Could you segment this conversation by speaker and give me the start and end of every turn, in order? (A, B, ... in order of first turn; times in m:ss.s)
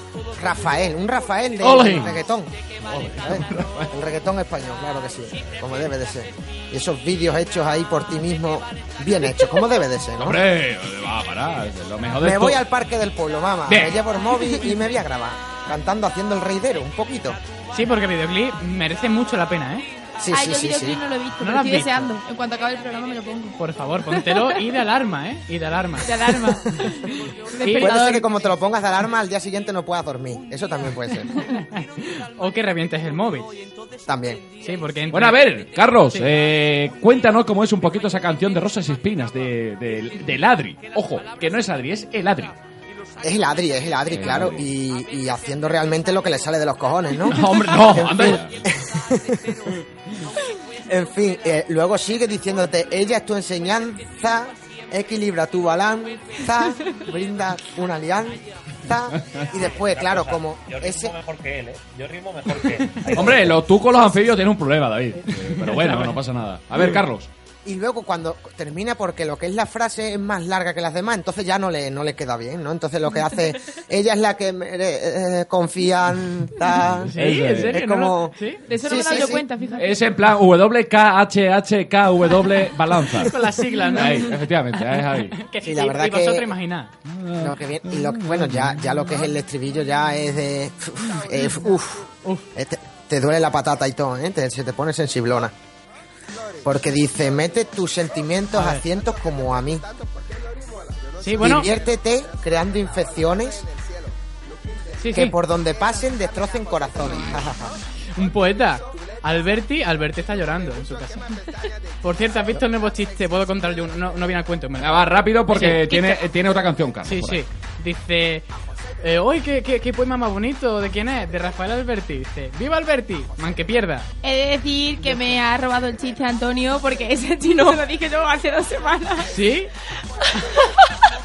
0:00.4-0:02.5 A
0:01.6-0:02.2 B
0:02.8-0:03.9 B
0:03.2-0:10.4 A
0:10.2-0:12.6 B
0:12.2-0:17.4 A
0:13.6-0:14.1 B
0:17.7-0:19.8 C
0:20.2-0:21.0 A
0:20.3-0:23.5 D
0:21.4-0:22.1 C
0:23.6-0:26.8 C
0:24.2-0:24.5 D
0:26.0-0:28.5 D
0:27.6-0:28.1 C
0:27.8-0:31.3 A
0:31.4-0:33.5 C
0:34.0-0:34.4 A
0:34.6-0:35.5 C
0:35.1-0:42.6 B
0:43.2-0:49.6 A
0:44.1-0:44.7 B
0:47.3-0:48.6 B
0:50.8-1:01.2 A
0:59.7-1:03.6 E
1:03.1-1:07.3 B
1:05.3-1:06.2 C
1:07.6-1:19.4 A
1:17.0-1:17.8 B
1:17.1-1:18.6 C
1:18.7-1:20.0 D
1:19.8-1:25.4 B
1:23.3-1:26.9 C
1:25.6-1:26.5 A
1:27.0-1:29.2 B
1:27.4-1:35.5 A
1:36.6-1:39.8 A
1:38.5-1:38.8 C
1:41.2-1:41.7 C
1:41.4-1:43.6 A
1:45.0-1:45.4 C
1:45.1-1:47.7 A
1:48.1-1:51.3 C
1:52.0-1:56.2 C
1:54.8-1:57.4 B
1:57.0-1:58.4 C
1:59.0-2:04.1 C
2:04.2-2:09.3 D
2:09.2-2:09.7 C